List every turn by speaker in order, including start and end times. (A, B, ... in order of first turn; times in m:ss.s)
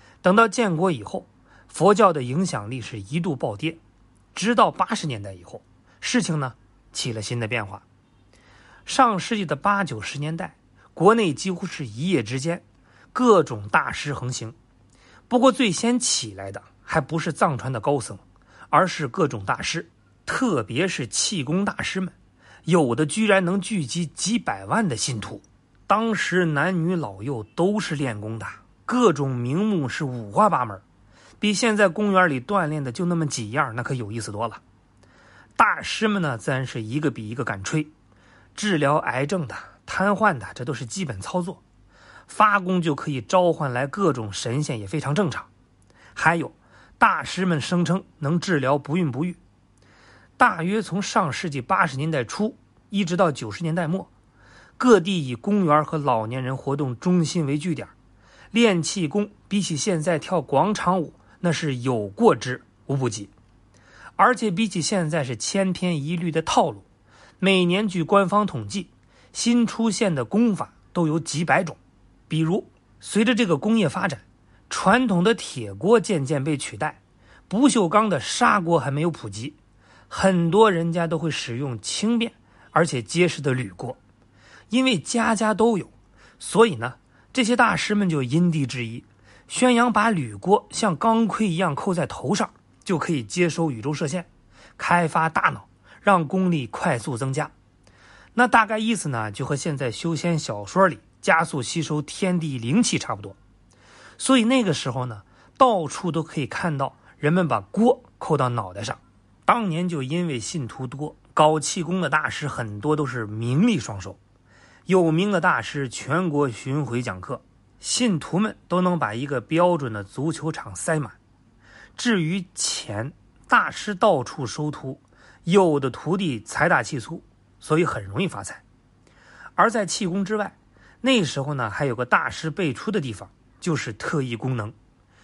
0:00.2-0:03.8 A
0:04.3-0:07.8 A
0:08.8-0:14.6 A
0:15.3-0:22.1 A
0:22.6-0:30.8 A
0:31.4-0:34.6 A
0:35.6-0:37.9 A
0:38.5-0:41.6 A
0:42.3-0:45.5 A
0:46.2-0:49.4 A
0:50.4-0:54.1 A
0:54.8-0:57.9 A
0:58.5-1:03.3 A
1:04.2-1:06.8 A
1:07.4-1:11.8 A
1:12.3-1:19.6 A
1:20.1-1:24.0 A
1:24.7-1:37.5 A
1:38.3-1:43.4 A
1:44.2-1:54.2 A
1:54.9-2:01.2 A
2:02.0-2:08.6 A
2:09.6-2:14.7 A